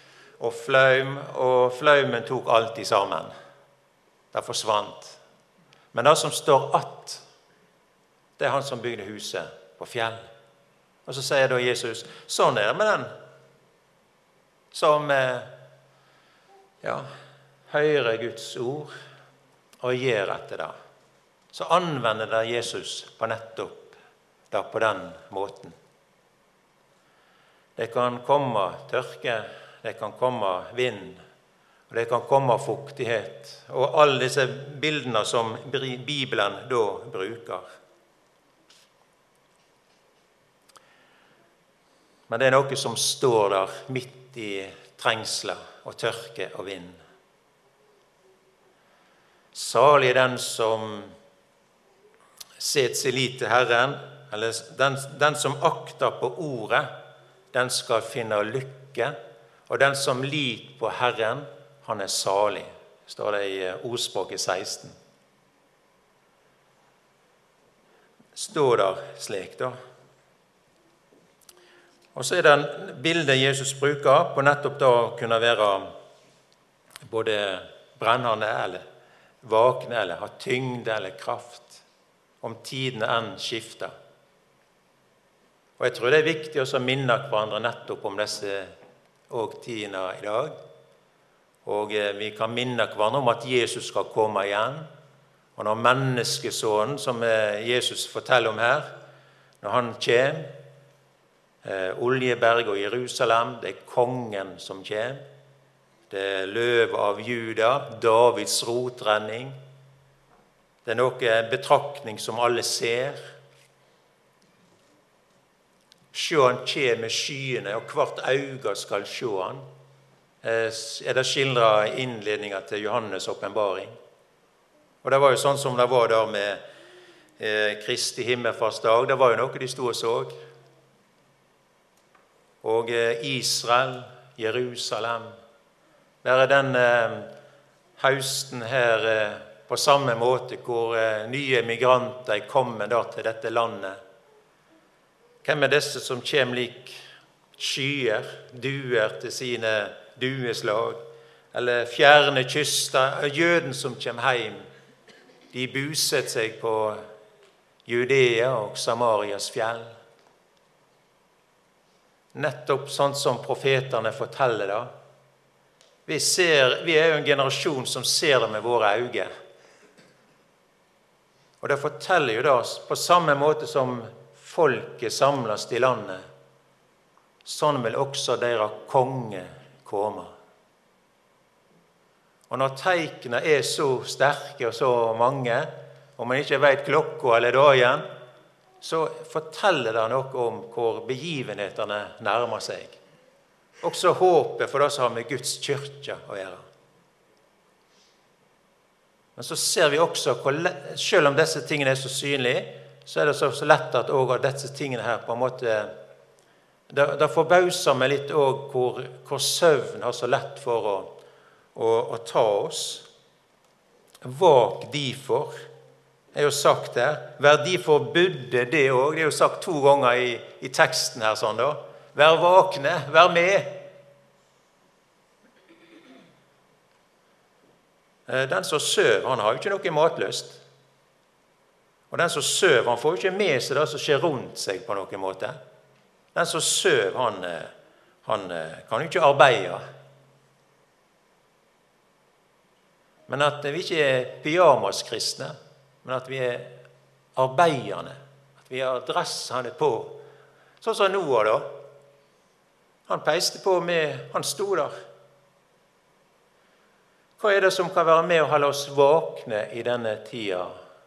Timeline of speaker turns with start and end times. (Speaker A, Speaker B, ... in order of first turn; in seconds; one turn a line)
Speaker A: 0.4-3.3
Speaker A: 4.3-5.2
Speaker A: 5.9-7.2
Speaker A: 8.4-10.2
Speaker A: 11.1-13.1
Speaker A: 14.7-15.5
Speaker A: 16.8-17.1
Speaker A: 17.7-18.9
Speaker A: 19.8-20.7
Speaker A: 21.5-24.0
Speaker A: 24.5-25.8
Speaker A: 27.8-31.2
Speaker A: 31.9-37.7
Speaker A: 42.3-47.0
Speaker A: 49.5-51.1
Speaker A: 52.6-56.9
Speaker A: 57.5-59.2
Speaker A: 59.7-64.9
Speaker A: 68.3-69.8
Speaker A: 72.2-75.9
Speaker A: 77.0-78.8
Speaker A: 79.4-81.8
Speaker A: 82.4-83.9
Speaker A: 85.8-88.7
Speaker A: 89.3-90.6
Speaker A: 91.7-94.9
Speaker A: 95.6-98.9
Speaker A: 99.6-100.6
Speaker A: 101.6-105.2
Speaker A: 106.1-109.6
Speaker A: 110.8-113.2
Speaker A: 116.1-119.7
Speaker A: 120.4-123.9
Speaker A: 125.0-126.6
Speaker A: 127.4-130.3
Speaker A: 132.6-135.3
Speaker A: 136.2-137.3
Speaker A: 138.0-144.0
Speaker A: 145.4-147.0
Speaker A: 147.6-151.0
Speaker A: 151.5-154.6
Speaker A: 155.5-157.0
Speaker A: 157.9-159.9
Speaker A: 162.3-164.9
Speaker A: 166.1-169.3
Speaker A: 171.6-176.2
Speaker A: 177.4-180.3
Speaker A: 182.5-188.1
Speaker A: 188.8-193.0
Speaker A: 193.8-196.6
Speaker A: 199.4-205.9
Speaker A: 206.9-211.2
Speaker A: 211.8-213.1
Speaker A: 214.2-215.6
Speaker A: 216.3-223.8
Speaker A: 228.3-230.6
Speaker A: 232.1-235.6
Speaker A: 236.3-237.7
Speaker A: 238.2-239.8
Speaker A: 243.3-246.8
Speaker A: 247.4-250.2
Speaker A: 250.8-251.8
Speaker A: 253.1-254.9
Speaker A: 257.4-260.7